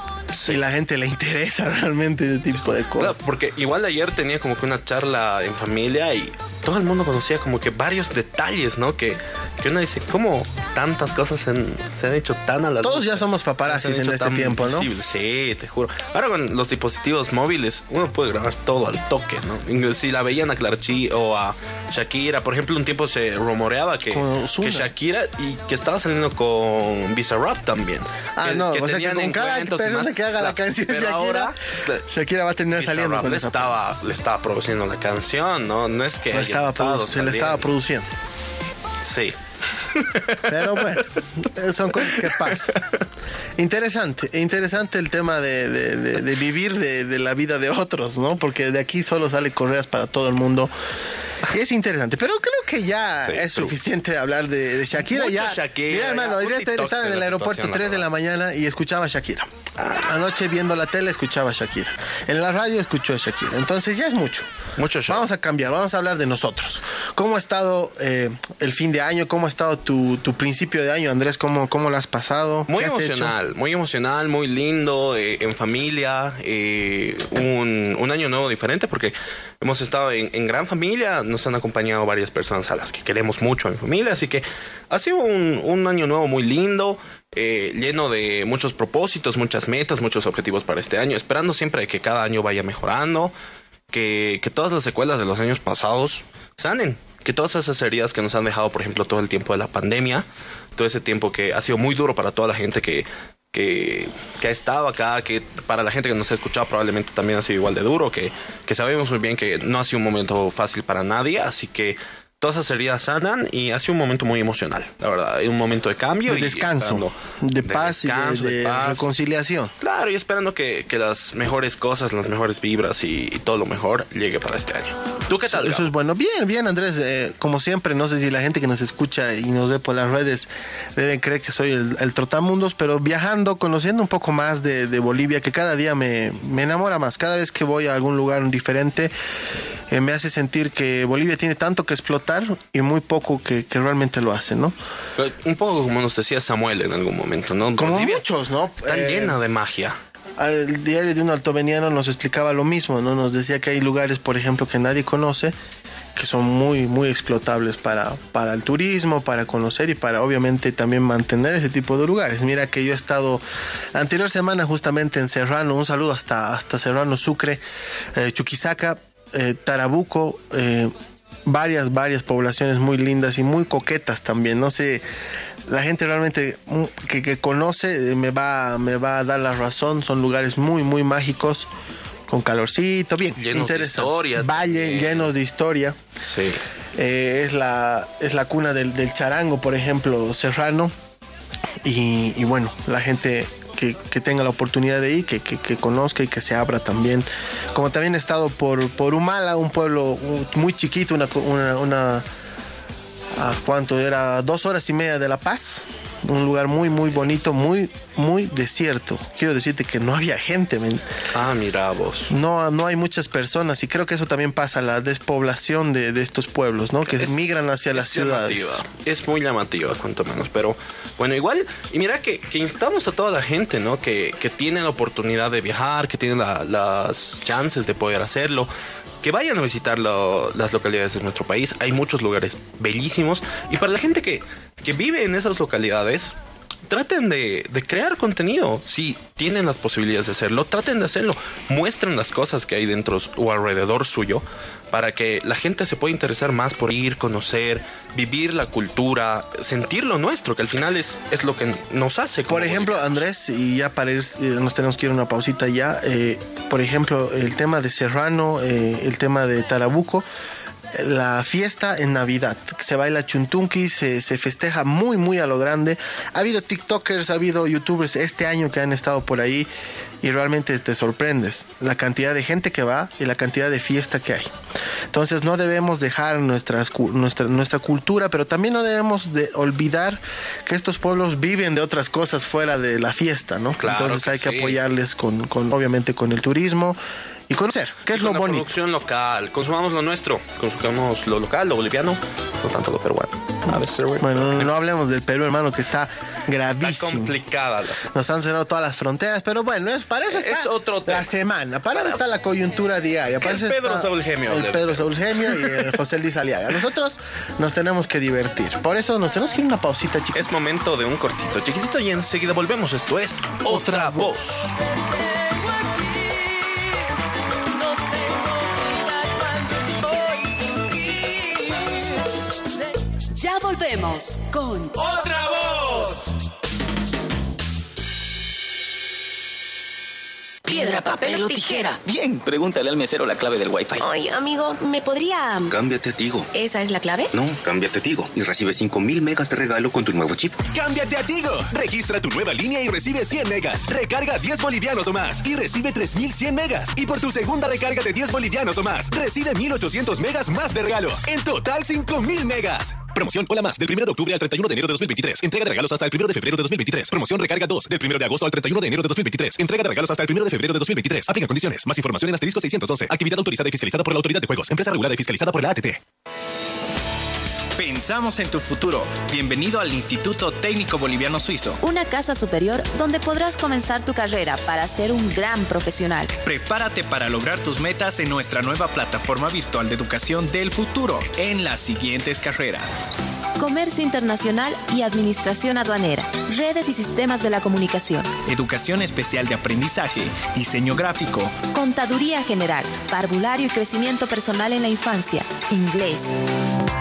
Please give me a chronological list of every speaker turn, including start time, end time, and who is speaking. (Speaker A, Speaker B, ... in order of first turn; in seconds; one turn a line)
Speaker A: 0.3-0.6
Speaker B: 0.4-3.2
Speaker A: 2.9-32.1
Speaker B: 12.8-14.9
Speaker B: 24.1-24.9
Speaker B: 28.4-33.8
Speaker A: 32.7-37.7
Speaker B: 36.3-38.1
Speaker A: 39.0-41.0
Speaker B: 40.5-42.7
Speaker A: 42.0-42.8
Speaker B: 43.6-50.7
Speaker B: 51.4-64.5
Speaker A: 53.3-53.7
Speaker A: 54.9-58.1
Speaker A: 59.8-60.1
Speaker A: 64.8-65.3
Speaker B: 65.1-73.3
Speaker A: 72.7-93.3
Speaker A: 93.9-100.2
Speaker A: 100.8-119.1
Speaker B: 116.3-119.7
Speaker A: 119.8-125.9
Speaker B: 125.5-139.1
Speaker B: 139.9-144.8
Speaker A: 145.2-148.3
Speaker B: 147.8-149.4
Speaker A: 148.8-150.0
Speaker B: 150.4-155.6
Speaker B: 156.2-163.4
Speaker B: 163.9-167.6
Speaker B: 168.1-170.9
Speaker B: 171.5-175.1
Speaker B: 175.7-181.7
Speaker B: 182.3-186.0
Speaker A: 183.4-185.3
Speaker A: 186.3-186.6
Speaker B: 186.9-190.9
Speaker B: 191.8-202.3
Speaker B: 203.3-211.1
Speaker A: 211.3-212.3
Speaker B: 212.3-218.8
Speaker A: 217.1-228.7
Speaker A: 229.2-236.3
Speaker A: 236.9-253.2
Speaker B: 252.5-260.3
Speaker B: 260.9-269.7
Speaker B: 270.2-274.5
Speaker B: 275.1-288.8
Speaker A: 283.8-284.8
Speaker A: 288.1-294.7
Speaker B: 294.2-297.4
Speaker A: 296.8-298.1
Speaker B: 298.1-310.5
Speaker A: 300.3-301.4
Speaker A: 301.9-302.2
Speaker A: 303.4-306.0
Speaker A: 310.3-314.8
Speaker B: 313.6-314.4
Speaker C: 323.4-324.9
Speaker D: 330.7-334.1
Speaker E: 330.8-331.8
Speaker C: 331.4-331.9
Speaker E: 334.0-334.5
Speaker F: 335.7-336.5
Speaker E: 336.6-337.0
Speaker F: 337.3-340.6
Speaker G: 340.7-366.0
Speaker H: 367.8-371.8
Speaker C: 371.8-376.4
Speaker H: 376.4-382.9
Speaker C: 383.6-388.3
Speaker H: 388.5-391.6
Speaker C: 391.7-396.4